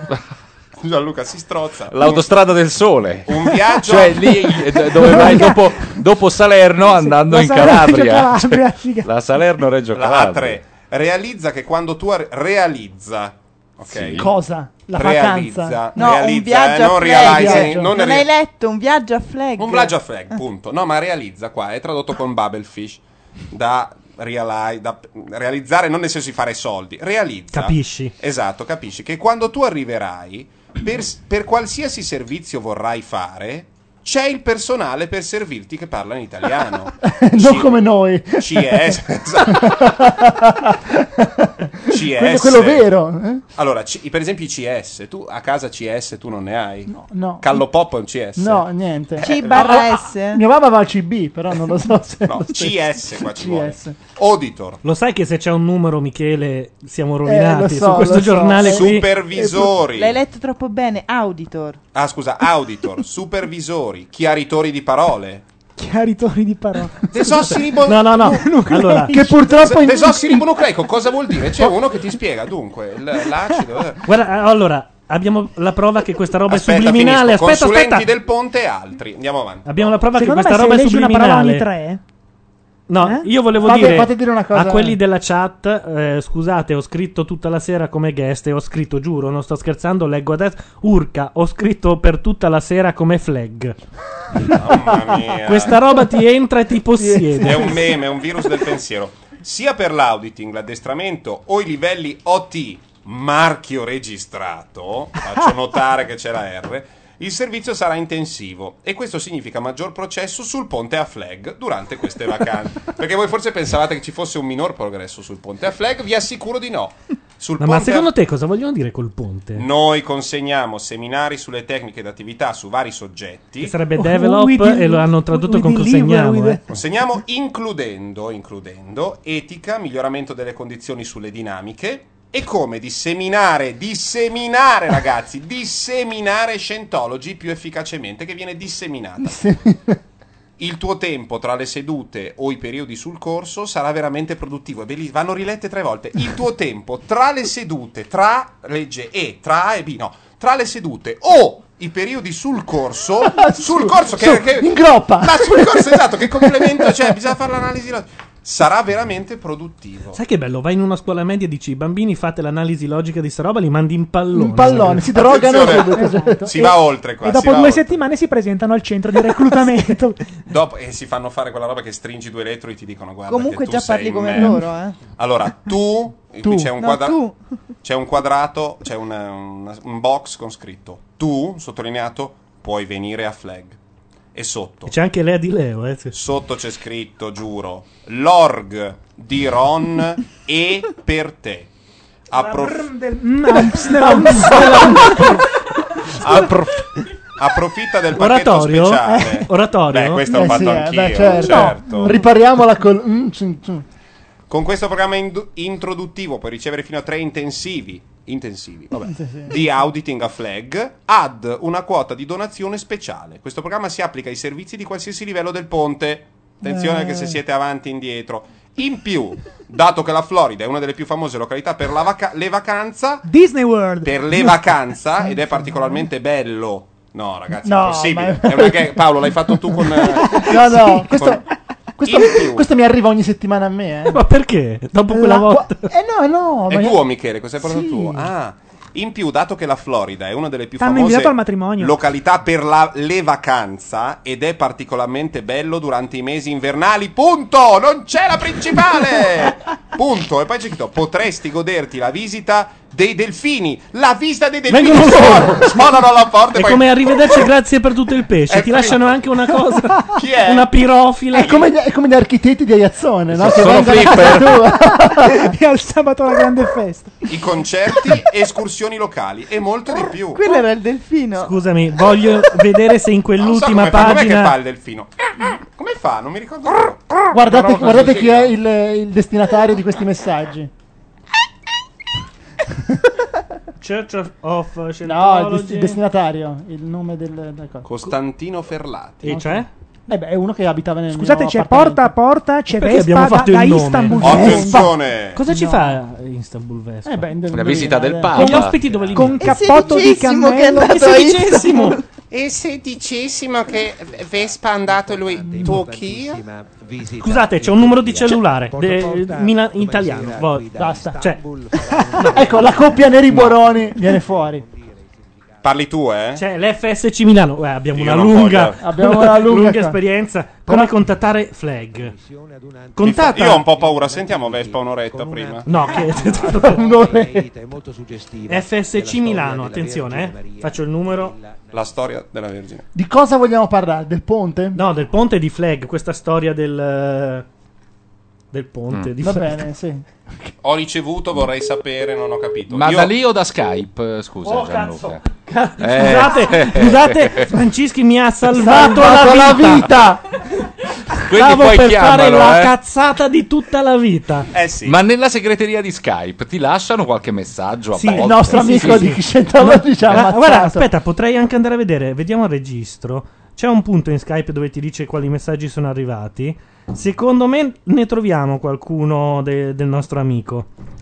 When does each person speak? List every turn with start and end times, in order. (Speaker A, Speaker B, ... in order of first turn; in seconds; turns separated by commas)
Speaker A: 0.8-2.3, Speaker B: 1.9-10.6, Speaker A: 3.3-5.2, Speaker C: 7.0-9.1, Speaker A: 9.9-14.3, Speaker B: 13.9-14.3, Speaker C: 14.2-15.8, Speaker A: 14.9-18.3, Speaker D: 16.0-20.4, Speaker E: 17.3-17.6, Speaker C: 17.3-17.7, Speaker A: 19.6-40.1, Speaker F: 27.5-28.1, Speaker E: 37.0-43.4, Speaker A: 41.9-42.9, Speaker A: 43.5-48.7, Speaker E: 46.9-47.6, Speaker E: 48.4-54.0, Speaker A: 49.2-49.9, Speaker D: 49.2-50.4, Speaker A: 52.3-54.8, Speaker F: 54.8-59.1, Speaker E: 57.2-59.7, Speaker A: 58.6-60.2, Speaker D: 60.0-61.8, Speaker A: 61.9-65.5, Speaker C: 65.8-67.5, Speaker A: 67.1-68.5, Speaker F: 67.9-69.3, Speaker C: 68.4-69.3, Speaker E: 69.1-70.5, Speaker A: 69.5-74.0, Speaker F: 74.1-78.1, Speaker A: 76.5-80.0, Speaker F: 79.7-81.7, Speaker C: 80.2-82.0, Speaker F: 82.9-93.8, Speaker E: 83.6-85.0, Speaker A: 94.5-95.8, Speaker F: 95.5-97.8, Speaker E: 97.0-97.8, Speaker A: 97.4-118.1, Speaker F: 117.6-119.7, Speaker A: 119.6-123.7, Speaker F: 123.6-126.6, Speaker C: 124.0-126.6, Speaker A: 126.7-139.5, Speaker E: 139.2-140.0, Speaker A: 140.6-160.2, Speaker E: 153.2-157.1, Speaker F: 160.1-165.1, Speaker E: 164.3-166.6, Speaker A: 165.1-168.0, Speaker C: 165.9-170.2, Speaker A: 170.5-177.2, Speaker D: 173.3-175.0, Speaker D: 176.4-177.4, Speaker A: 177.8-183.8, Speaker A: 184.3-184.9, Speaker F: 184.9-186.2, Speaker A: 186.1-191.7, Speaker A: 192.3-193.0, Speaker C: 192.3-195.4, Speaker E: 194.0-195.3, Speaker A: 196.2-196.8, Speaker A: 197.4-202.2, Speaker F: 198.2-200.3, Speaker E: 200.3-203.9, Speaker C: 201.4-202.0, Speaker A: 204.5-223.3, Speaker E: 209.0-209.6, Speaker E: 216.6-217.4, Speaker C: 223.2-224.2, Speaker A: 224.0-231.5, Speaker E: 225.5-225.9, Speaker E: 227.6-231.5, Speaker E: 232.0-234.2, Speaker A: 232.0-232.7, Speaker F: 234.1-235.9, Speaker E: 235.1-237.0, Speaker A: 236.7-257.5, Speaker E: 237.6-238.3, Speaker C: 240.8-242.0, Speaker F: 254.7-255.8, Speaker F: 256.6-261.7, Speaker A: 258.5-259.2, Speaker A: 260.1-260.7, Speaker E: 261.3-265.5, Speaker B: 263.3-264.7, Speaker C: 265.1-267.3, Speaker A: 267.3-270.4, Speaker D: 270.3-271.5, Speaker F: 271.4-274.5, Speaker A: 273.4-275.1, Speaker A: 275.8-278.5, Speaker E: 277.3-280.7, Speaker F: 283.8-286.0, Speaker E: 285.0-287.9, Speaker A: 287.9-289.3, Speaker F: 289.2-289.7, Speaker E: 289.3-292.1, Speaker C: 291.1-294.9, Speaker F: 292.7-294.8, Speaker A: 294.2-295.4, Speaker F: 295.4-297.3, Speaker E: 295.5-296.0, Speaker E: 297.1-298.6, Speaker B: 297.5-298.8, Speaker F: 298.4-299.5, Speaker C: 298.4-302.0, Speaker D: 299.4-302.0, Speaker F: 301.4-301.9, Speaker G: 302.3-306.4, Speaker F: 307.2-311.4, Speaker E: 310.8-311.3, Speaker E: 312.1-314.7, Speaker F: 312.2-312.6, Speaker A: 315.6-316.4, Speaker F: 316.4-322.1, Speaker A: 317.9-318.8, Speaker E: 318.8-320.0, Speaker E: 320.7-320.9, Speaker F: 323.0-323.6, Speaker A: 323.0-325.7, Speaker F: 325.7-326.9, Speaker E: 326.2-327.5, Speaker F: 328.5-331.4, Speaker A: 331.7-332.9, Speaker E: 332.9-334.8, Speaker F: 334.8-337.5, Speaker F: 338.5-339.6, Speaker E: 339.2-340.5, Speaker A: 340.6-343.1, Speaker B: 342.7-345.2, Speaker F: 344.4-349.9, Speaker B: 345.8-347.5, Speaker E: 348.5-350.2, Speaker B: 351.3-352.7, Speaker F: 351.3-354.5, Speaker A: 354.5-355.0, Speaker B: 354.9-359.2, Speaker F: 358.0-370.7, Speaker E: 358.1-360.9